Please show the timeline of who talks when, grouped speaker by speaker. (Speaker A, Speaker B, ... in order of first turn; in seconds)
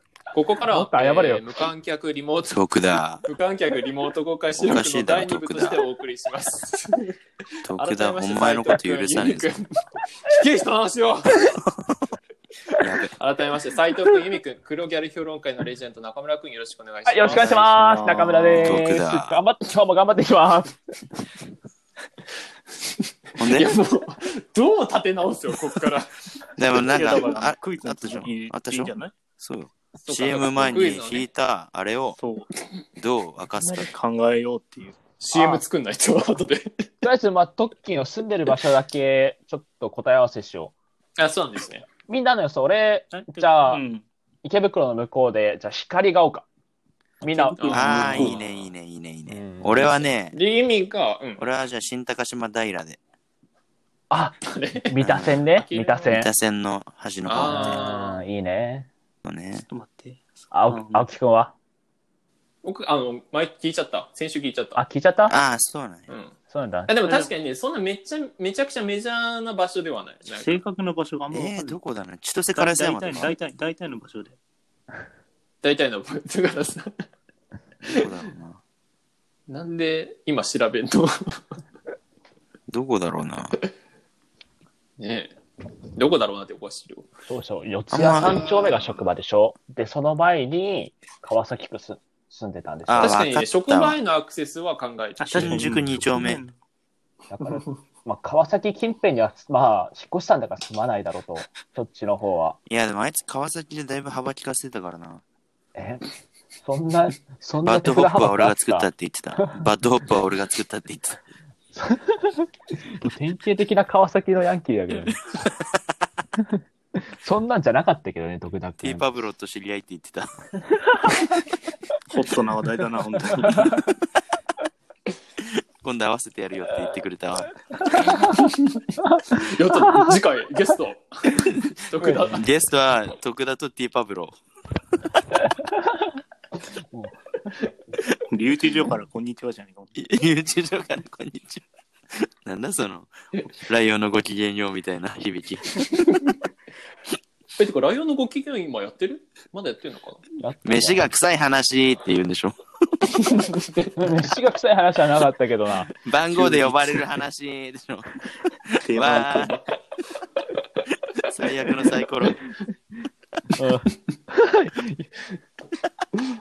Speaker A: 0.3-2.6, 3.2-7.2, 7.7-11.5, 13.2-18.0, 23.0-26.1, 30.0-31.2, 35.2-36.9, 41.2-41.9, 47.7-48.3, 50.3-51.4, 54.4-54.9, 55.5-56.1, 57.2-58.2, 62.6-64.8, 66.1-66.3, 66.9-70.6, 75.6-76.9, 79.5-81.6, 85.0-85.3, 85.9-87.1, 88.2-88.8, 93.0-95.7, 128.2-128.8, 129.3-132.5, 145.9-146.3, 147.6-150.2, 153.2-153.9
Speaker B: 0.7-1.4, 17.1-20.8, 35.3-35.6, 37.0-40.7, 42.1-43.8, 44.4-46.5, 47.2-48.3, 49.3-49.9, 54.1-56.3, 57.4-58.9, 60.5-61.5, 64.8-65.4, 66.5-67.1, 87.3-93.2, 97.3-102.6, 105.7-106.0, 106.6-108.9, 109.4-109.7, 111.7-112.3, 113.0-115.2, 117.0-119.1, 120.9-121.2, 127.8-128.4, 129.0-130.1, 132.0-132.4, 135.4-136.1, 136.9-137.5, 150.4-151.1, 154.0-155.9, 163.6-165.1
Speaker C: 2.5-3.2, 4.6-5.8, 7.6-9.5, 12.8-13.1, 18.6-19.4, 23.4-23.7, 26.6-32.2, 33.0-33.9, 47.7-50.4, 51.4-53.0, 55.0-55.4, 56.1-57.9, 59.2-59.6, 60.7-61.0, 65.3-66.1, 71.3-73.3, 77.8-78.6, 82.7-83.5, 87.9-88.5, 92.8-94.0, 95.3-96.4, 102.7-105.2, 107.6-111.2, 118.8-120.3, 125.4-127.5, 132.3-134.4, 139.9-146.0, 150.6-153.1, 156.0-158.1, 158.7-159.6, 161.3-162.4
Speaker D: 17.2-18.8, 26.7-29.1, 32.1-32.5, 33.6-35.0, 43.1-44.0, 47.3-48.6, 59.7-60.5, 70.3-71.8, 72.5-74.4, 95.2-96.5, 122.1-123.7, 138.3-139.9, 156.3-157.1, 158.8-159.7